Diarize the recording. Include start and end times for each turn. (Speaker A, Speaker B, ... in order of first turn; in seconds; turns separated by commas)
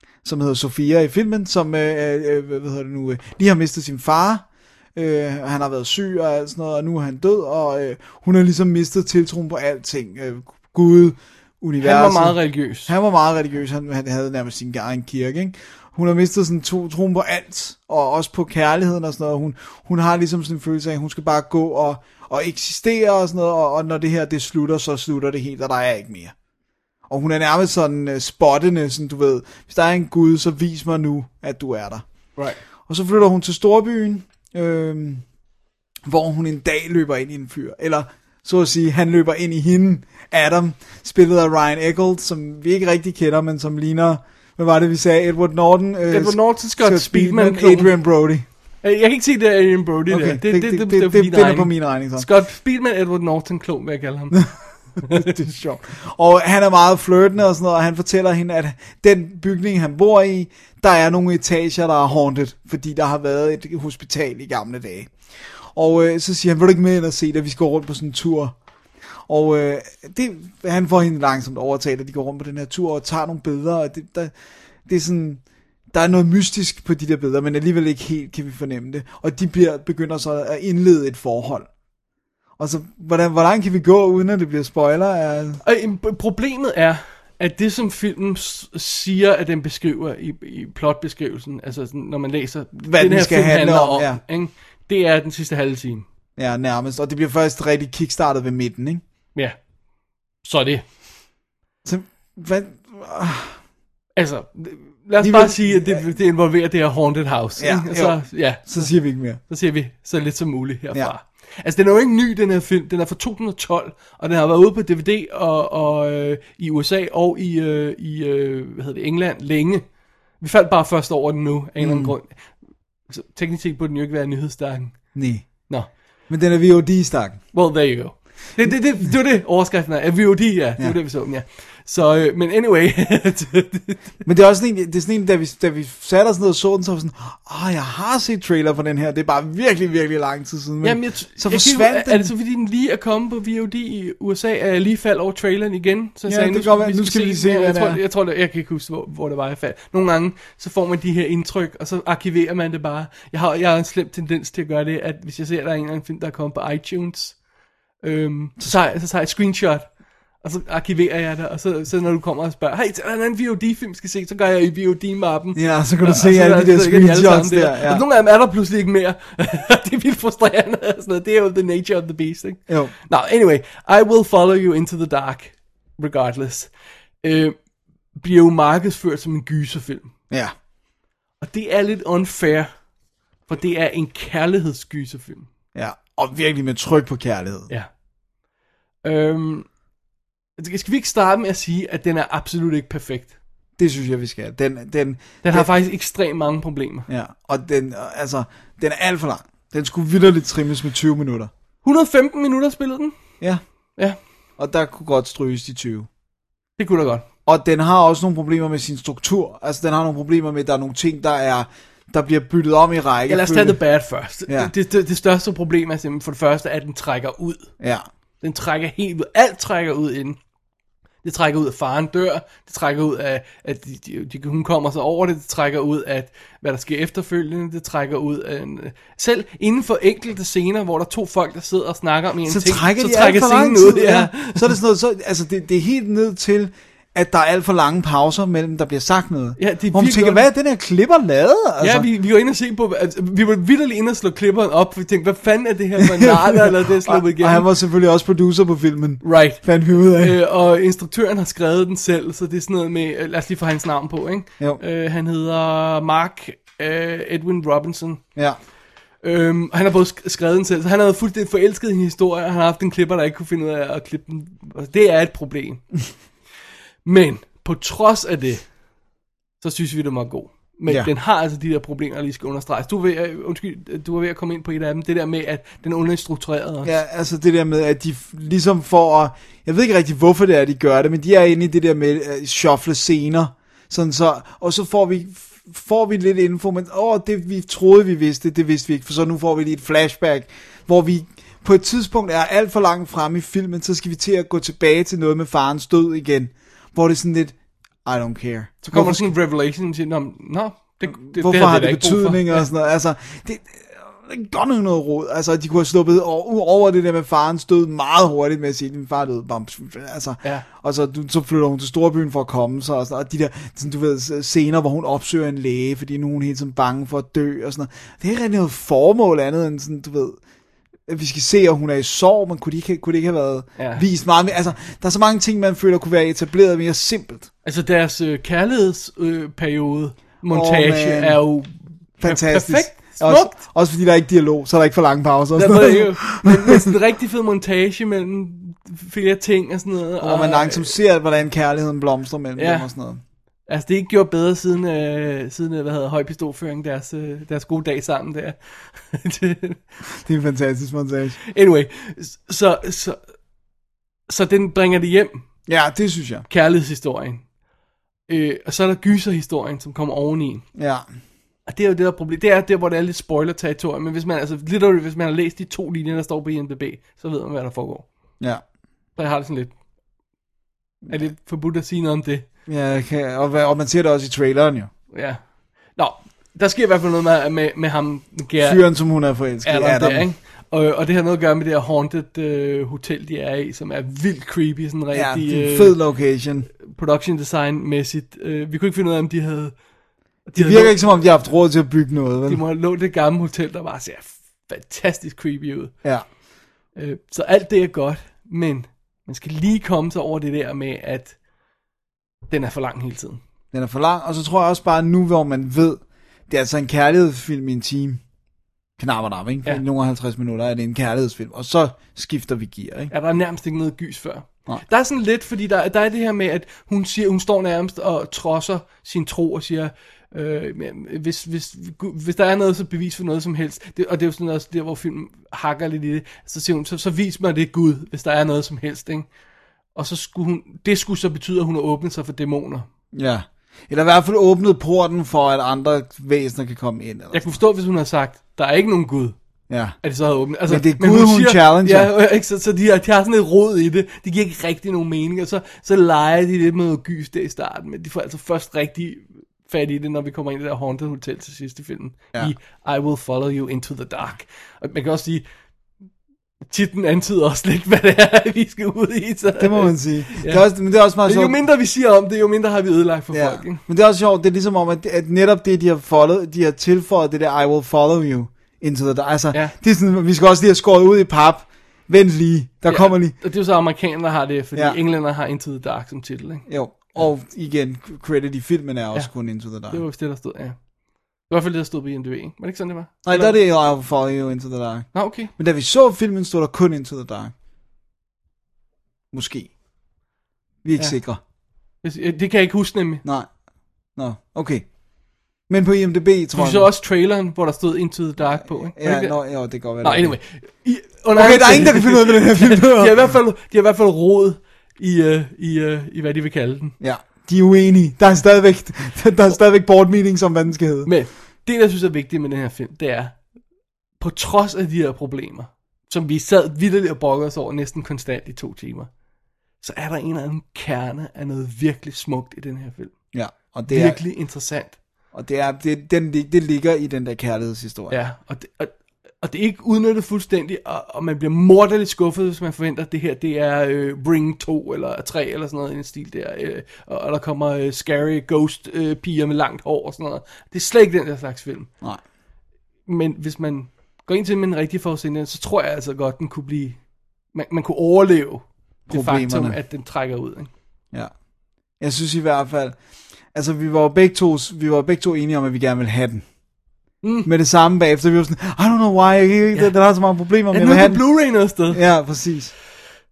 Speaker A: 0.2-26.3, Speaker B: 11.8-12.9, Speaker A: 27.1-32.0, Speaker A: 32.9-35.2, Speaker A: 36.0-48.5, Speaker B: 46.1-47.9, Speaker B: 48.8-54.5, Speaker A: 50.1-52.3, Speaker A: 55.0-68.5, Speaker B: 55.0-55.3, Speaker A: 69.3-74.3, Speaker A: 74.9-81.7, Speaker A: 82.6-85.6, Speaker B: 85.6-96.0, Speaker A: 92.7-94.2, Speaker A: 96.4-99.0, Speaker B: 100.4-100.8, Speaker A: 101.8-103.6, Speaker B: 104.2-108.9, Speaker A: 105.2-106.0, Speaker A: 107.6-109.4, Speaker B: 109.5-119.8, Speaker B: 120.4-125.1, Speaker A: 121.8-122.1, Speaker A: 125.1-125.6, Speaker A: 126.3-127.4, Speaker B: 127.5-134.0, Speaker A: 134.2-142.3, Speaker B: 140.8-157.3, Speaker A: 146.2-148.0, Speaker B: 158.0-159.9, Speaker B: 160.4-176.7, Speaker A: 165.5-168.0, Speaker A: 172.7-172.9, Speaker B: 177.2-177.6, Speaker B: 178.2-180.1, Speaker B: 181.4-182.7, Speaker B: 183.5-185.5, Speaker A: 185.7-187.7, Speaker B: 189.0-189.7, Speaker B: 190.6-193.3, Speaker A: 193.8-195.7, Speaker B: 195.4-197.1, Speaker A: 197.1-201.5, Speaker B: 201.8-203.1, Speaker A: 204.6-206.1, Speaker B: 206.8-207.2, Speaker A: 207.4-213.8, Speaker B: 213.3-217.7, Speaker A: 214.5-214.7, Speaker A: 217.8-218.1, Speaker B: 218.4-220.4, Speaker B: 221.2-234.7, Speaker A: 232.4-242.1, Speaker B: 239.6-240.4, Speaker B: 241.8-247.7, Speaker A: 246.0-250.4, Speaker B: 249.2-258.2, Speaker B: 259.2-265.8, Speaker B: 267.0-268.6, Speaker B: 269.6-276.9, Speaker A: 276.8-299.3, Speaker B: 298.8-302.6, Speaker A: 301.1-320.4, Speaker A: 321.1-327.5, Speaker B: 323.8-324.0, Speaker B: 327.6-333.6, Speaker A: 330.5-331.4, Speaker A: 332.2-336.9, Speaker B: 335.5-340.9, Speaker A: 340.2-343.2, Speaker B: 342.6-342.9, Speaker B: 343.7-349.8, Speaker A: 350.2-351.4, Speaker B: 351.5-353.2, Speaker B: 354.3-355.4, Speaker A: 355.7-356.4, Speaker B: 356.5-357.4, Speaker B: 358.3-360.6, Speaker A: 360.7-361.1, Speaker B: 361.7-368.0, Speaker B: 369.1-369.7, Speaker B: 371.1-372.4, Speaker A: 372.7-374.9, Speaker B: 375.1-375.4, Speaker B: 375.9-378.8, Speaker A: 378.6-380.3, Speaker B: 379.6-386.0, Speaker A: 385.1-386.7, Speaker B: 386.9-389.7, Speaker B: 390.5-391.0, Speaker A: 390.6-392.6, Speaker B: 392.5-395.9, Speaker B: 396.9-401.4, Speaker B: 402.5-403.4, Speaker A: 403.7-408.2, Speaker A: 409.0-413.1, Speaker B: 413.1-429.3, Speaker B: 429.9-432.9, Speaker A: 433.1-437.6, Speaker B: 437.3-439.3, Speaker A: 439.7-440.0, Speaker B: 440.0-455.4, Speaker A: 440.6-442.1, Speaker B: 456.7-460.6, Speaker A: 459.5-461.6, Speaker B: 461.2-463.8, Speaker A: 463.3-473.3, Speaker B: 472.9-476.6, Speaker A: 476.7-480.0, Speaker B: 479.9-480.8, Speaker B: 481.5-483.5, Speaker A: 483.2-487.5, Speaker B: 485.1-485.5, Speaker A: 489.3-489.7, Speaker A: 490.8-491.4, Speaker B: 492.0-493.2, Speaker A: 493.2-493.5, Speaker A: 494.1-494.9, Speaker A: 495.7-496.9, Speaker B: 496.6-499.4, Speaker A: 498.6-500.4, Speaker B: 500.0-506.9, Speaker A: 501.3-503.3, Speaker A: 507.0-511.1, Speaker B: 511.1-513.4, Speaker B: 514.2-519.1, Speaker B: 519.8-523.1, Speaker A: 523.3-524.2, Speaker B: 523.9-524.9, Speaker A: 525.3-528.1, Speaker B: 528.1-541.9, Speaker B: 543.1-547.0, Speaker B: 547.5-550.7, Speaker A: 549.1-549.8, Speaker A: 552.0-553.0, Speaker A: 553.5-556.4, Speaker B: 557.2-557.5, Speaker A: 557.4-561.2, Speaker B: 560.7-562.0, Speaker A: 561.9-562.7